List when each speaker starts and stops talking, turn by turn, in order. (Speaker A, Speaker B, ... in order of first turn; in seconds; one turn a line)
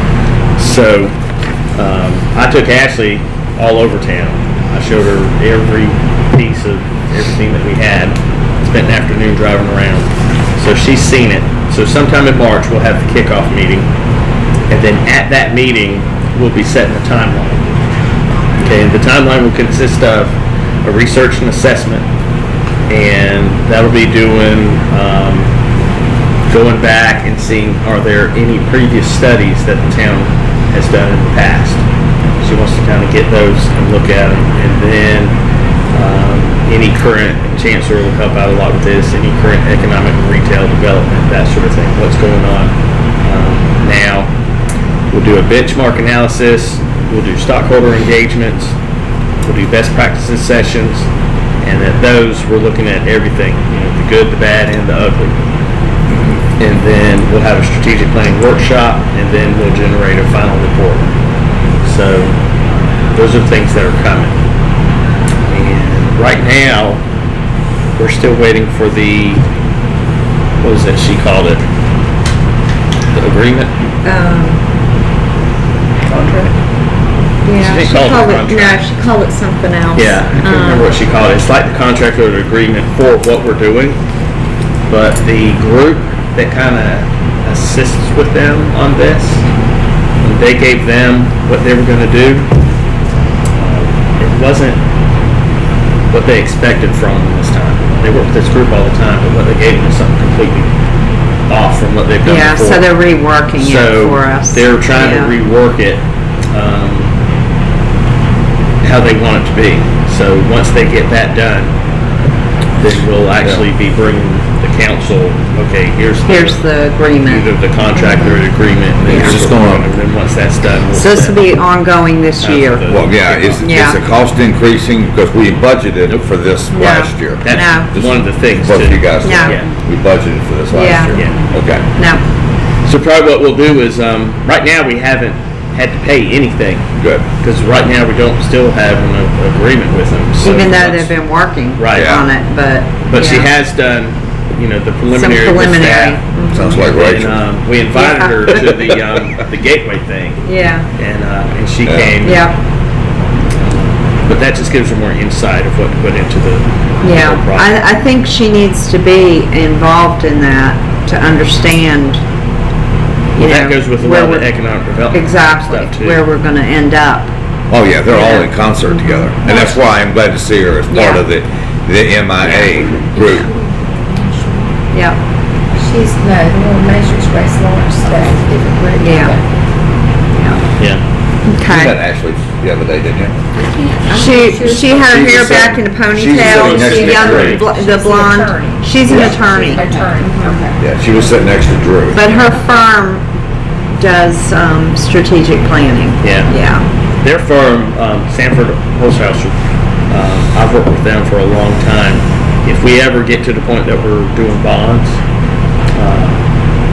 Speaker A: 0.6-1.1
Speaker A: 1.7-13.9
Speaker A: 14.7-17.6
Speaker A: 18.6-22.1
Speaker A: 22.9-25.5
Speaker A: 26.5-31.8
Speaker A: 32.4-35.3
Speaker A: 35.9-44.3
Speaker A: 45.1-48.8
Speaker A: 49.4-51.1
Speaker A: 51.6-55.3
Speaker A: 56.1-61.1
Speaker A: 61.8-62.4
Speaker A: 63.1-64.4
Speaker A: 65.5-67.0
Speaker A: 68.0-69.4
Speaker A: 70.6-71.6
Speaker A: 73.1-73.7
Speaker B: 74.0-74.6
Speaker A: 76.1-76.5
Speaker B: 77.4-80.9
Speaker A: 77.6-78.8
Speaker A: 80.0-84.0
Speaker A: 84.9-89.4
Speaker A: 90.2-92.5
Speaker A: 93.5-94.8
Speaker A: 96.1-100.7
Speaker A: 101.5-102.8
Speaker B: 102.2-105.3
Speaker A: 103.6-107.1
Speaker A: 108.8-111.7
Speaker A: 112.8-116.6
Speaker B: 116.3-118.4
Speaker A: 117.2-121.4
Speaker B: 119.1-119.3
Speaker C: 119.1-119.9
Speaker B: 120.9-122.9
Speaker A: 122.4-123.7
Speaker C: 122.9-131.8
Speaker B: 123.5-124.0
Speaker B: 126.7-127.9
Speaker A: 127.4-129.7
Speaker B: 129.2-129.5
Speaker B: 130.7-131.2
Speaker A: 131.1-131.5
Speaker B: 132.0-132.2
Speaker A: 132.8-141.1
Speaker C: 137.0-137.2
Speaker B: 140.4-143.5
Speaker A: 141.8-142.2
Speaker C: 141.9-142.2
Speaker A: 143.1-146.2
Speaker B: 145.1-146.8
Speaker C: 146.5-147.4
Speaker A: 146.8-150.4
Speaker B: 147.9-148.6
Speaker B: 150.4-150.9
Speaker A: 151.0-152.4
Speaker C: 151.8-152.2
Speaker B: 152.2-152.6
Speaker A: 153.6-157.8
Speaker B: 157.0-162.2
Speaker B: 163.3-164.5
Speaker A: 163.4-166.2
Speaker B: 165.1-167.3
Speaker C: 167.7-173.5
Speaker B: 168.1-169.8
Speaker B: 170.9-171.2
Speaker B: 172.4-173.3
Speaker D: 173.1-174.7
Speaker B: 174.9-175.2
Speaker D: 175.8-179.4
Speaker B: 179.0-179.3
Speaker B: 180.3-180.6
Speaker B: 181.4-181.9
Speaker C: 181.7-183.3
Speaker D: 183.5-185.4
Speaker B: 184.1-190.6
Speaker C: 184.8-187.6
Speaker A: 186.4-187.6
Speaker D: 186.8-190.8
Speaker C: 189.1-189.4
Speaker C: 190.8-192.3
Speaker B: 192.1-193.2
Speaker B: 194.0-196.8
Speaker A: 196.2-196.5
Speaker A: 197.2-199.6
Speaker A: 200.1-205.2
Speaker A: 205.9-206.4